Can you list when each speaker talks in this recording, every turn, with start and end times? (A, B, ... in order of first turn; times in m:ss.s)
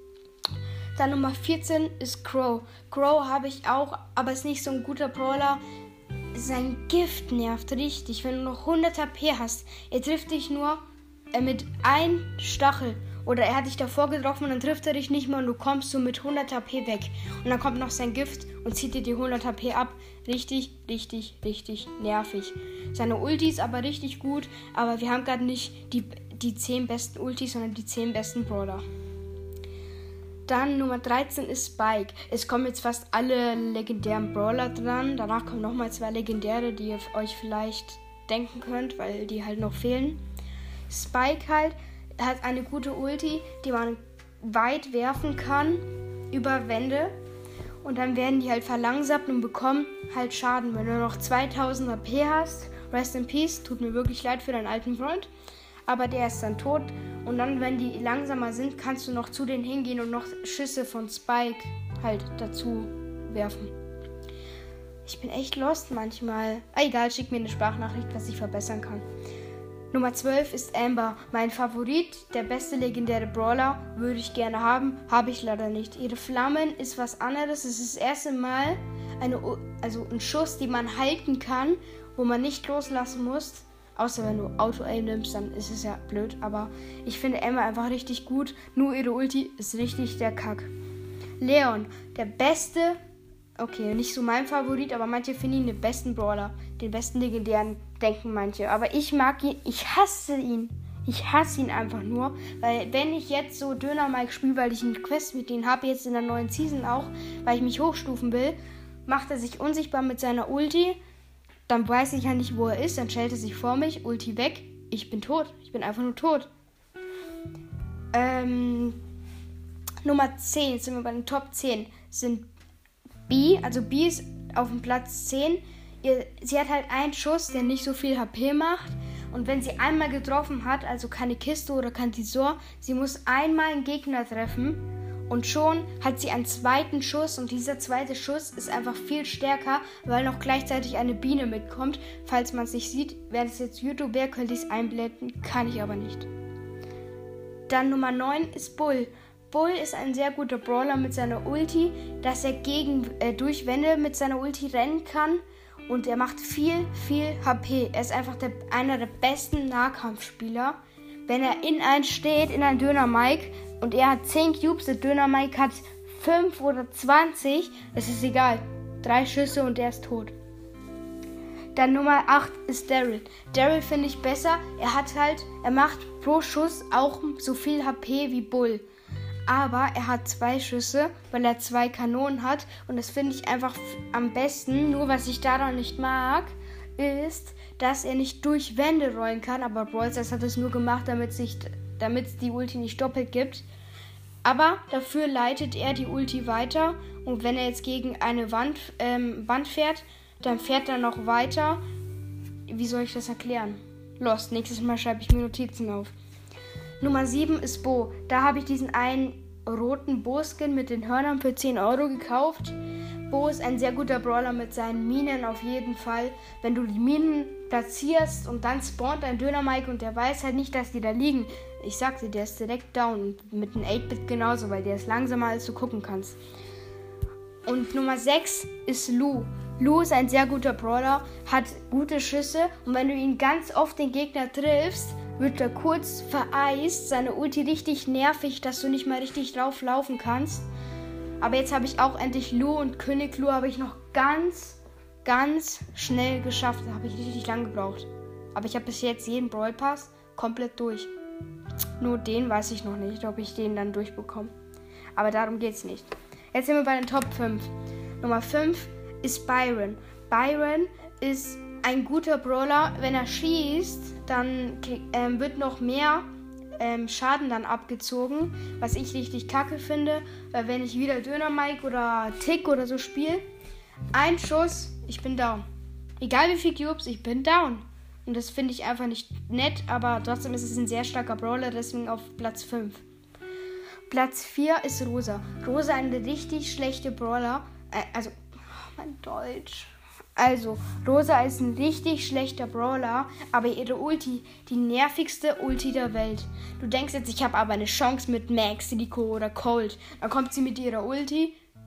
0:01.0-0:05.6 A
0:06.3-0:10.8 A
0:11.3-0:28.8 A
0:30.4-0:40.2 A
0:40.9-0:47.1 A
0:47.8-0:55.3 A
0:55.8-1:03.7 A
1:05.0-1:09.0 A
1:09.9-1:30.7 A
1:31.4-1:33.0 A
1:33.6-1:51.0 A
1:51.7-1:56.5 A
1:58.1-1:59.0 A
2:00.0-2:02.5 A
2:03.3-2:26.3 A
2:27.7-2:50.3 A
2:51.7-2:58.8 A
2:59.5-3:13.6 A
3:14.4-3:21.8 A
3:22.7-3:26.1 A
3:27.0-3:32.8 A
3:33.3-3:46.4 A
3:47.6-4:00.6 A
4:01.4-4:11.1 A
4:12.0-4:14.5 A
4:15.1-4:26.2 A
4:26.8-4:33.4 A
4:34.1-4:35.6 A
4:36.2-4:43.0 A
4:44.1-5:01.6 A